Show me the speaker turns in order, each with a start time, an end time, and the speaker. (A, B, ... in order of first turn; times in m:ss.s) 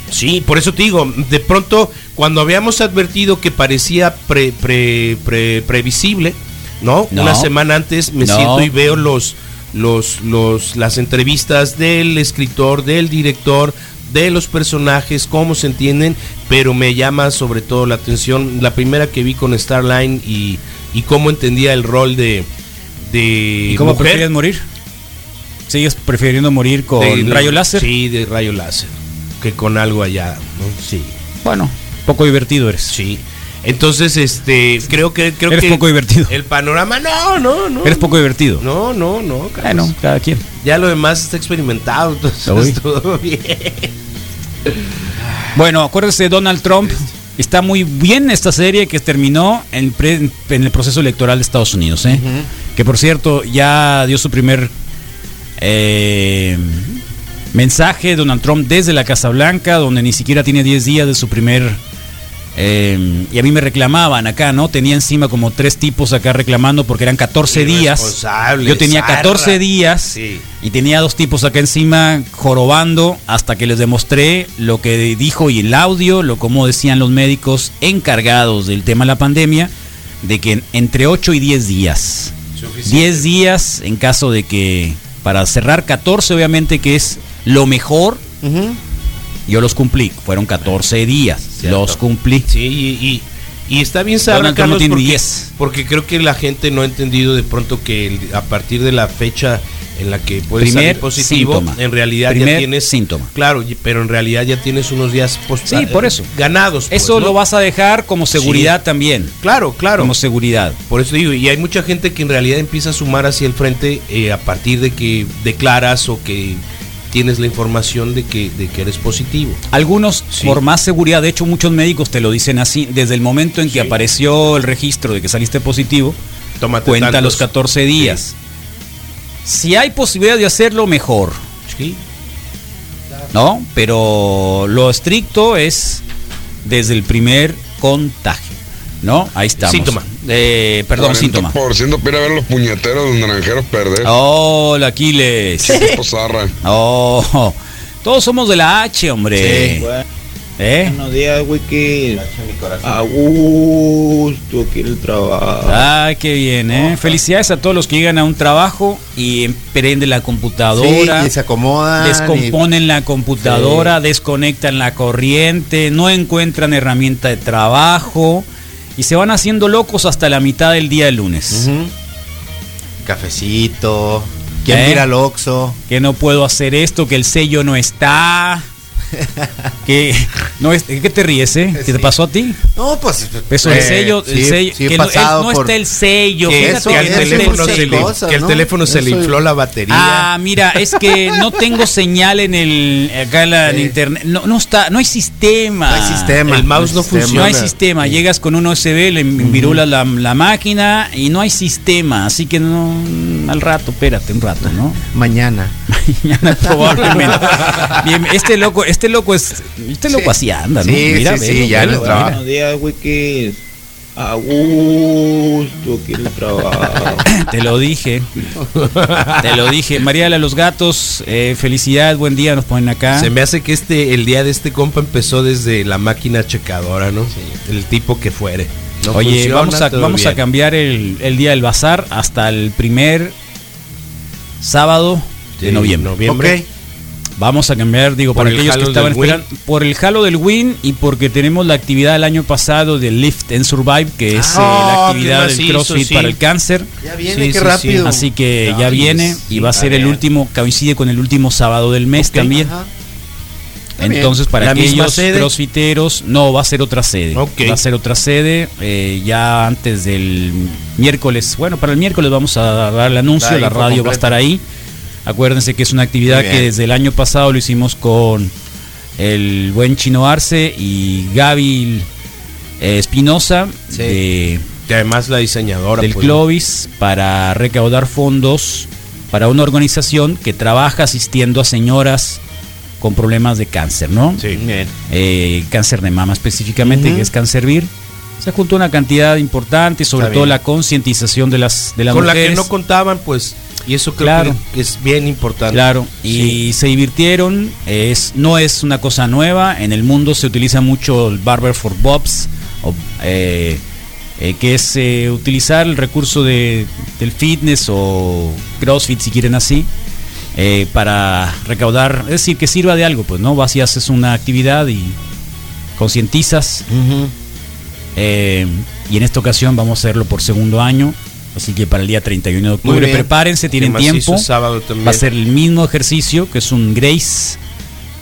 0:00.1-0:22.5 A
0:07.1-0:07.5 B
0:08.2-0:08.7 B
0:23.1-0:24.3 A
0:23.7-0:24.6 B
0:25.7-0:27.9 B
0:27.0-0:28.9 A
0:29.4-0:31.1 A
0:31.4-0:32.9 B
0:32.9-0:39.9 A
0:35.5-0:36.3 B
0:37.8-0:38.6 B
0:39.6-0:40.4 B
0:40.6-0:43.9 A
0:42.5-0:42.8 B
0:45.2-0:45.5 C
0:45.5-0:52.2 B
0:52.1-0:52.5 C
0:52.8-0:54.7 B
0:55.6-0:57.0 B
0:57.5-1:01.8 B
1:02.6-1:22.3 B
1:07.5-1:10.4 A
1:22.6-1:23.2 A
1:22.9-1:28.2 B
1:28.4-1:28.8 C
1:29.5-1:32.5 B
1:31.6-1:32.0 C
1:32.5-1:47.4 A
1:34.3-1:35.5 B
1:40.6-1:43.3 B
1:45.7-1:46.3 B
1:46.9-1:49.3 B
1:48.4-1:48.7 A
1:49.4-1:50.1 A
1:50.0-1:50.8 B
1:50.9-1:59.6 A
1:59.7-2:06.2 B
2:00.3-2:00.6 A
2:06.6-2:07.4 A
2:06.8-2:08.3 B
2:09.4-2:11.4 B
2:11.7-2:12.0 A
2:13.3-2:16.0 B
2:16.6-2:21.6 B
2:19.6-2:20.1 A
2:21.0-2:24.1 D
2:24.0-2:25.9 B
2:25.7-2:26.5 D
2:26.6-2:29.9 B
2:29.4-2:30.0 E
2:29.4-2:29.8 C
2:30.6-2:31.0 B
2:30.8-2:35.9 E
2:32.2-2:32.9 C
2:35.6-2:41.3 B
2:36.8-2:37.1 E
2:40.7-2:42.6 C
2:42.0-2:48.4 B
2:43.5-2:43.9 C
2:49.0-2:51.7 B
2:51.5-2:51.9 C
2:53.0-2:55.8 C
2:54.7-2:55.1 B
2:55.9-2:58.7 B
2:59.2-2:59.7 C
2:59.9-3:02.6 B
3:01.8-3:02.1 C
3:02.7-3:05.8 C
3:03.5-3:08.1 B
3:06.5-3:10.3 A
3:06.5-3:09.4 C
3:09.9-3:16.4 B
3:13.6-3:14.0 C
3:15.9-3:18.1 C
3:16.5-3:17.7 A
3:17.3-3:25.0 B
3:19.4-3:19.8 C
3:25.1-3:25.7 C
3:25.9-3:32.4 B
3:26.9-3:27.8 C
3:30.1-3:32.4 C
3:31.3-3:32.1 A
3:31.8-3:33.6 E
3:34.2-3:37.3 E
3:37.3-3:38.3 B
3:38.8-3:39.4 A
3:39.4-3:43.3 B
3:43.1-3:50.4 A
3:49.1-3:53.3 B
3:54.6-3:56.1 B
3:55.6-3:56.6 A
3:56.3-3:56.7 C
3:57.4-4:06.9 B
3:58.3-3:59.4 A
4:04.3-4:04.9 C
4:04.5-4:06.4 A
4:07.0-4:08.2 C
4:07.3-4:08.2 A
4:08.0-4:12.7 B
4:08.7-4:09.7 A
4:08.9-4:10.2 C
4:12.2-4:12.9 C
4:14.0-4:14.3 C
4:14.0-4:24.6 B
4:14.6-4:15.5 A
4:17.3-4:17.8 A
4:23.4-4:24.3 C
4:25.3-4:28.5 B
4:26.3-4:26.7 C
4:29.2-4:32.1 B
4:32.8-4:34.6 B
4:33.9-4:34.2 C
4:34.9-4:36.4 A
4:36.0-4:42.4 B
4:43.0-4:44.4 B
4:44.6-4:44.9 C
4:45.1-4:52.7 B
4:46.8-4:47.3 C
4:50.2-4:50.6 C
4:52.1-4:56.6 A
4:54.2-4:54.6 B
4:55.7-5:03.8 B
5:04.4-5:09.9 B
5:10.6-5:15.2 B
5:16.0-5:16.9 B
5:16.9-5:17.3 C
5:18.2-5:24.5 B
5:22.8-5:25.3 A
5:25.0-5:27.6 B